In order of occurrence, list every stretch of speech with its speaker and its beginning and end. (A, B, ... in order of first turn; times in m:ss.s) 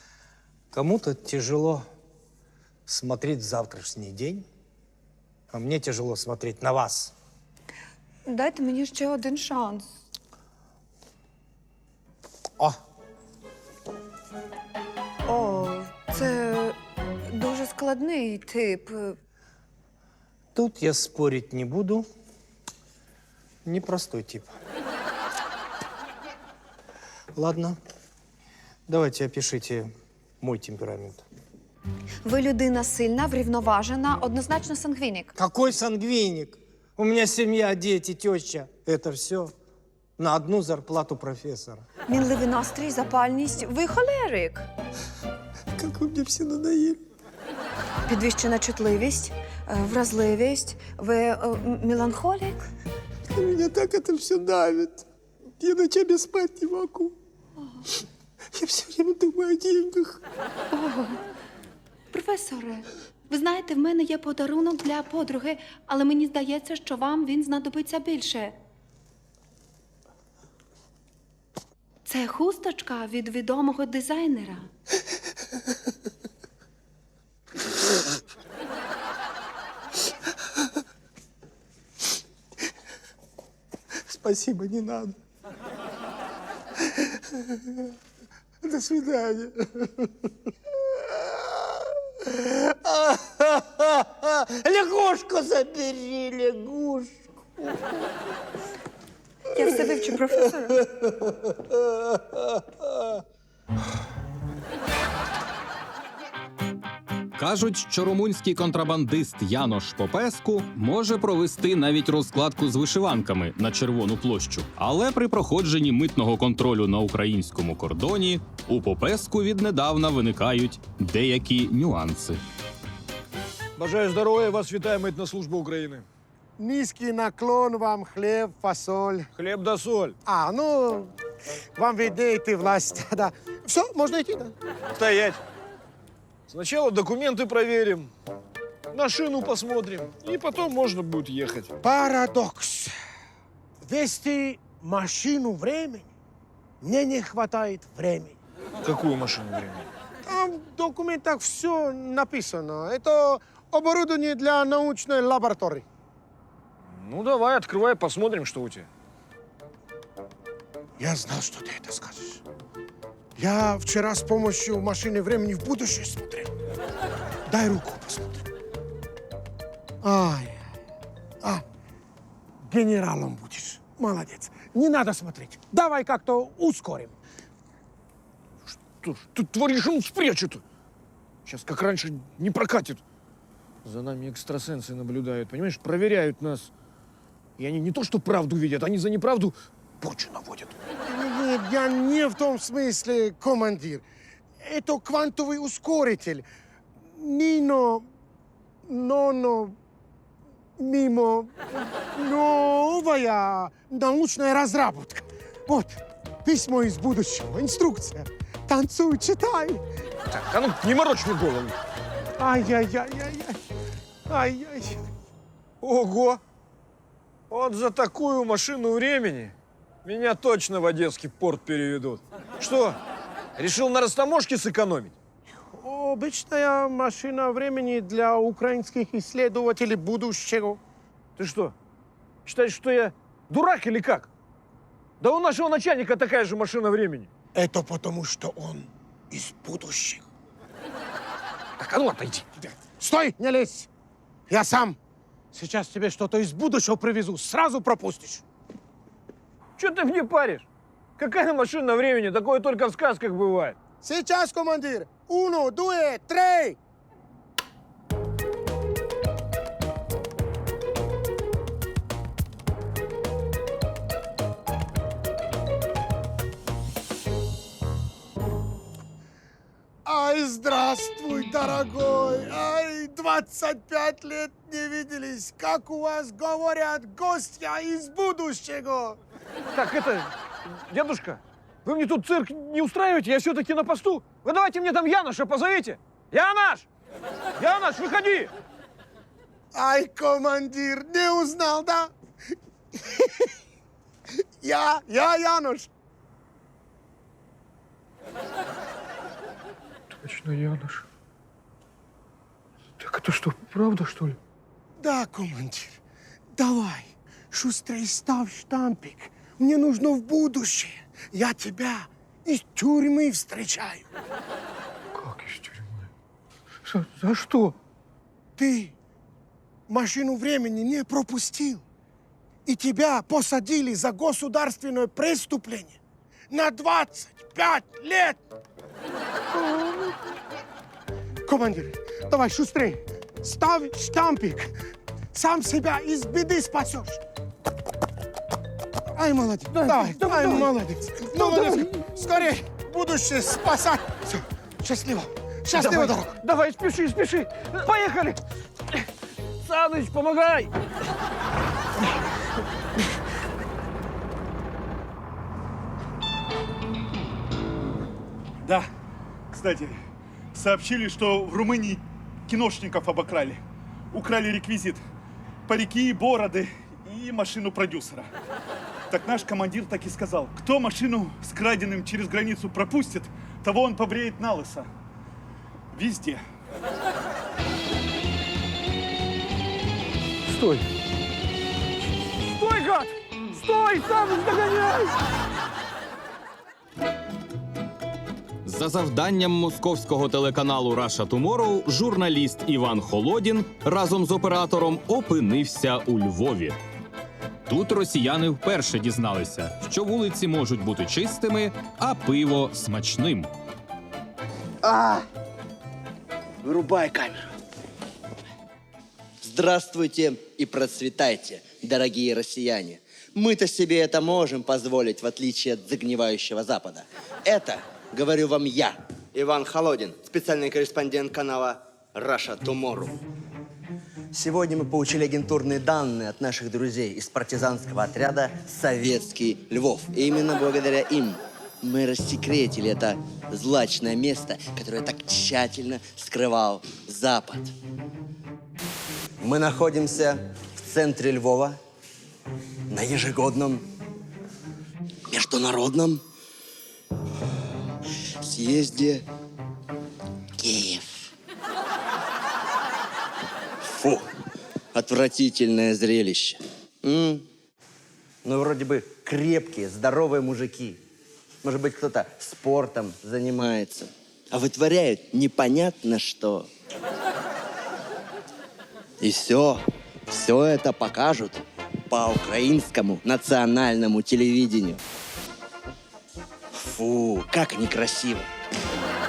0:00.7-0:01.9 A
0:02.9-0:04.4 A
0:05.5-0:07.1 A
0:08.2-0:09.9 B
0:15.2-0:16.8 B
0:17.3-0:19.2 B
0:20.5-0:22.1 A
0:23.6-0:24.5 A
0:27.3-0:27.8 A
0:28.9-0:31.2 A
0:32.2-0:35.3 B
0:35.3-0:39.5 A
0:40.2-0:41.8 A
0:42.1-0:44.7 B
0:45.8-0:47.0 A
0:48.1-0:52.6 B
0:53.3-0:55.0 A
0:55.6-0:57.1 A
0:58.5-1:00.2 A
1:00.7-1:01.2 B
1:02.1-1:08.5 B
1:12.0-1:14.7 B
1:24.0-1:25.2 A
1:28.6-1:29.5 A
1:32.9-1:33.6 A
1:34.6-1:37.1 A
1:39.5-1:40.8 B
1:47.4-2:02.4 C
2:03.8-2:06.0 D
2:06.6-2:09.3 E
2:09.4-2:10.2 D
2:10.2-2:11.1 E
2:11.8-2:14.5 E
2:15.0-2:15.4 D
2:16.5-2:18.1 D
2:18.9-2:21.7 D
2:21.8-2:22.9 E
2:23.8-2:26.1 E
2:26.8-2:28.4 E
2:28.8-2:29.9 D
2:30.2-2:35.8 E
2:36.8-2:38.9 D
2:41.0-2:42.4 E
2:43.4-2:46.5 E
2:47.5-2:48.4 E
2:50.0-2:50.6 E
2:52.6-2:57.2 E
2:58.6-3:00.6 D
3:01.4-3:03.0 D
3:03.8-3:06.7 D
3:07.6-3:10.8 D
3:11.0-3:14.0 E
3:14.6-3:16.4 E
3:17.1-3:18.1 E
3:18.8-3:19.8 E
3:20.8-3:29.8 E
3:30.3-3:31.8 D
3:32.4-3:33.6 E
3:34.3-3:35.1 E
3:35.8-3:36.4 D
3:37.5-3:43.0 D
3:43.6-3:45.1 D
3:45.7-3:50.8 E
3:51.4-3:51.7 D
3:52.4-3:54.3 D
3:55.2-3:57.3 D
3:57.5-4:00.2 E
4:01.8-4:02.7 D
4:03.0-4:03.9 E
4:04.5-4:05.0 E
4:05.5-4:08.4 E
4:09.8-4:10.6 D
4:11.2-4:13.7 D
4:14.0-4:16.8 E
4:30.0-4:39.2 E
4:39.7-4:46.9 D
4:47.6-4:48.5 D
4:49.7-4:52.1 E
4:54.6-4:55.9 E
5:00.1-5:01.0 D
5:03.0-5:04.4 D
5:05.0-5:06.0 E
5:06.5-5:14.1 E
5:15.1-5:16.1 D
5:16.9-5:17.7 D
5:18.6-5:18.9 E
5:19.9-5:21.8 E
5:22.6-5:26.0 E
5:26.5-5:28.4 E
5:29.6-5:30.1 E
5:31.4-5:34.7 E
5:35.3-5:37.2 E
5:39.1-5:46.3 E
5:39.6-5:42.5 D
5:45.7-5:48.4 D
5:49.6-5:50.7 D
5:58.6-5:58.9 F
5:59.5-6:00.0 F
6:00.5-6:03.6 F
6:04.1-6:05.0 F
6:05.7-6:08.3 F
6:09.1-6:14.9 F
6:15.9-6:16.4 F
6:20.5-6:20.9 D
6:22.3-6:25.1 D
6:28.6-6:36.8 C
6:37.7-6:43.5 C
6:44.8-6:45.2 G
6:46.6-6:47.5 G
6:49.4-7:03.2 G
7:04.3-7:17.7 G
7:19.4-7:21.8 G
7:22.9-7:23.8 G
7:25.3-7:26.2 G
7:28.4-7:29.2 G
7:30.6-7:31.3 G
7:33.8-7:34.3 G
7:34.9-7:37.4 G
7:38.4-7:41.0 G
7:41.6-7:46.7 G
7:49.2-7:55.0 G
7:56.7-7:58.5 G